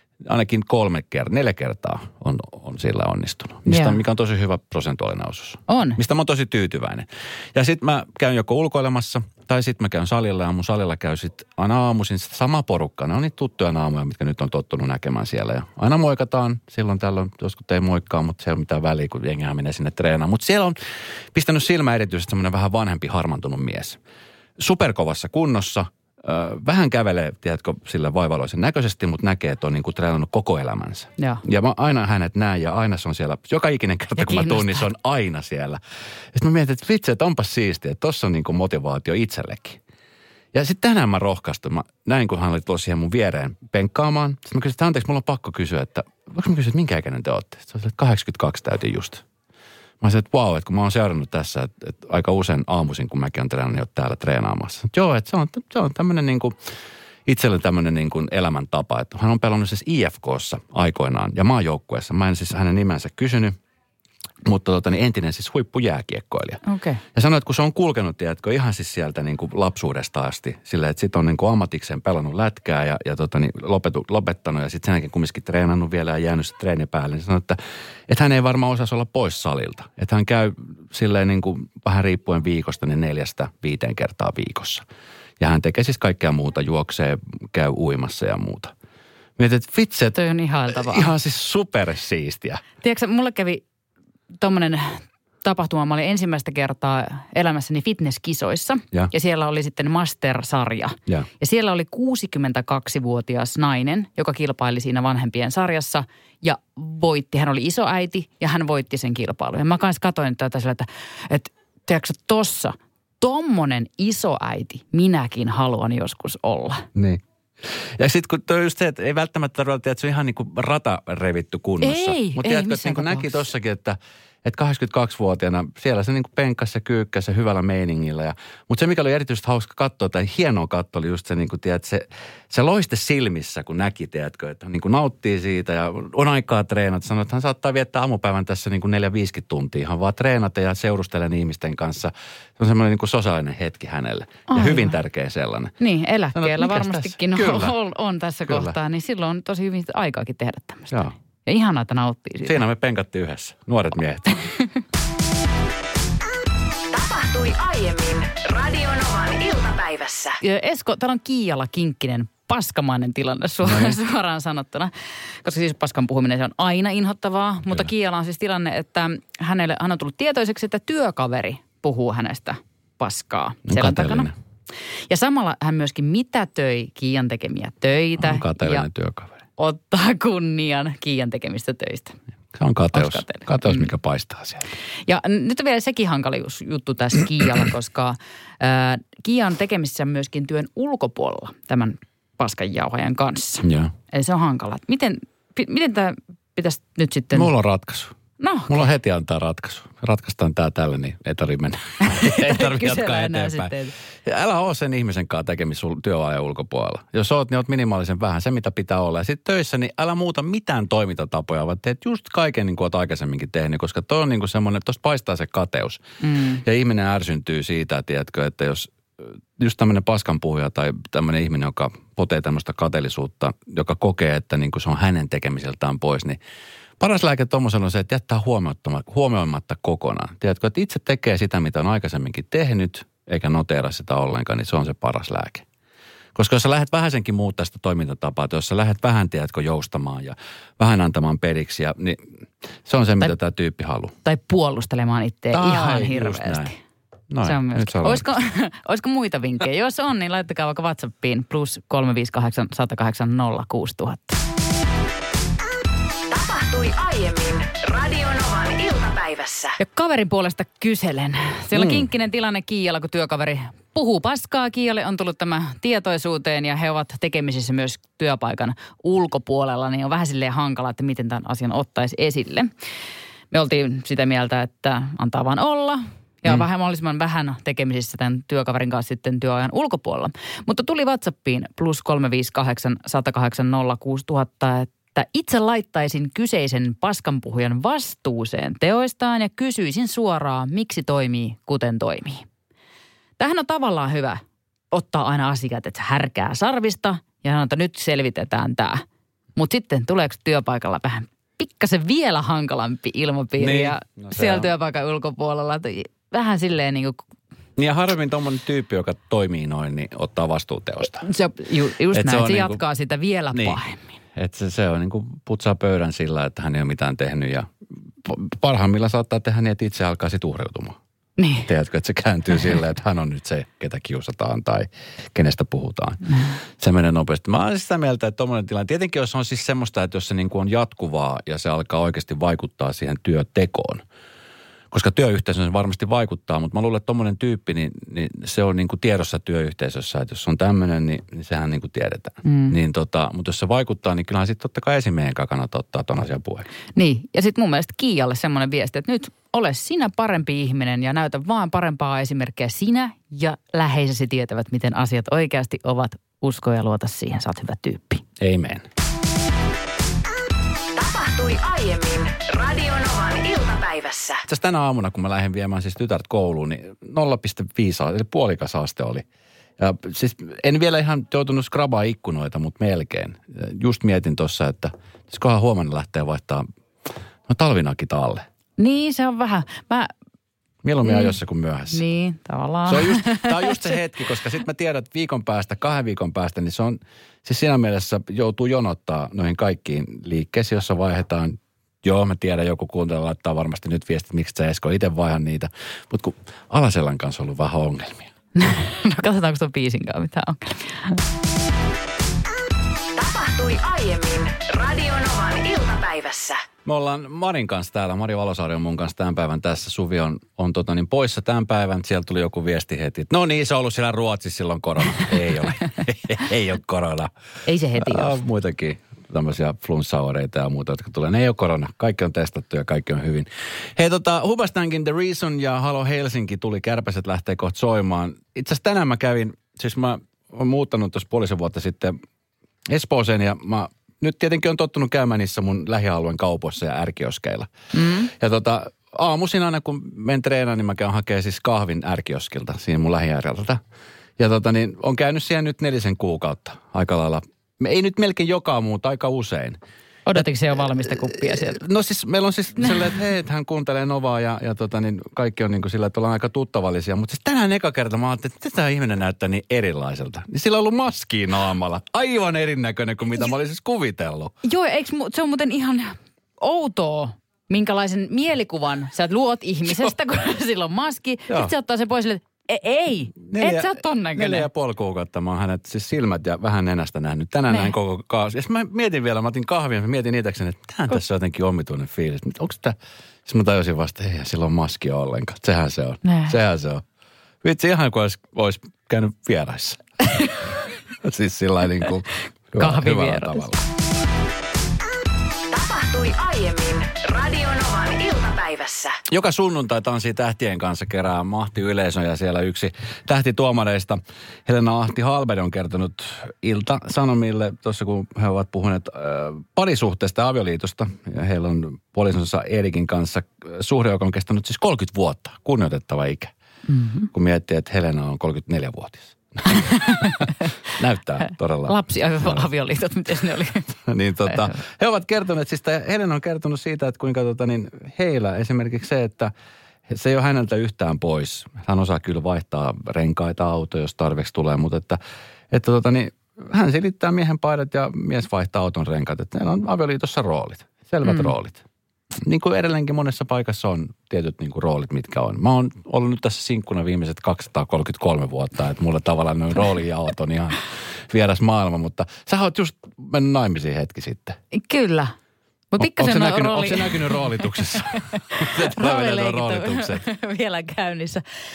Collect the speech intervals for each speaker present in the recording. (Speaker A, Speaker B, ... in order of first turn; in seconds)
Speaker A: 0.2-20.8, 21.3-24.0, 24.6-35.8, 36.3-39.8, 40.5-49.2, 50.0-56.5, 57.2-63.5, 64.4-66.6, 67.1-84.8, 85.4-88.7, 89.4-90.2, 90.7-92.6, 116.9-145.7, 146.3-147.7, 148.5-148.7, 152.4-154.5, 163.6-164.0, 173.7-174.3, 178.2-179.4, 182.5-184.7, 193.6-193.9, 197.3-198.1, 198.7-216.0, 216.6-226.4, 227.0-235.7, 236.3-242.3, 242.8-244.1, 245.5-246.7, 247.3-248.3, 261.7-262.1, 303.6-304.7, 307.8-311.2, 312.1-312.8, 313.5-313.8, 314.3-317.7, 318.2-321.0, 321.6-334.0, 334.9-346.7, 358.4-358.9, 364.4-369.2, 369.8-376.6, 377.5-378.4, 380.8-382.0, 382.9-398.3, 406.8-417.3, 418.0-432.1, 432.9-437.7, 438.3-443.8, 444.4-449.8, 451.1-464.5, 473.5-487.0, 487.6-490.0, 491.2-493.8, 499.3-516.5, 517.3-522.7, 524.0-529.5, 530.1-535.2, 535.7-541.8, 542.4-554.6, 556.0-560.3
Speaker B: 3.7-4.0, 5.7-6.0, 34.2-34.9, 66.6-67.0, 90.1-91.1, 92.8-93.6, 94.4-116.9, 121.8-123.5, 144.5-144.9, 145.8-152.6, 160.4-174.3, 175.1-178.9, 179.6-182.2, 182.9-183.9, 185.1-197.5, 198.4-198.9, 202.0-203.9, 216.2-216.6, 244.2-246.8, 247.4-254.4, 259.8-272.7, 273.5-292.4, 293.4-299.0, 299.6-307.2, 311.2-314.0, 321.4-321.7, 326.3-326.5, 342.4-342.8, 346.9-358.2, 378.8-380.1, 381.0-381.3, 381.9-383.8, 398.6-401.2, 417.6-418.4, 437.9-438.3, 450.3-451.8, 464.6-474.7, 477.7-477.9, 486.2-486.6, 492.8-493.7, 516.9-517.3, 519.7-520.7, 521.9-524.7, 541.2-541.5, 554.7-555.3, 555.9-561.4
Speaker C: 156.9-160.4, 256.3-259.8, 360.9-364.4, 403.1-406.6, 495.7-499.2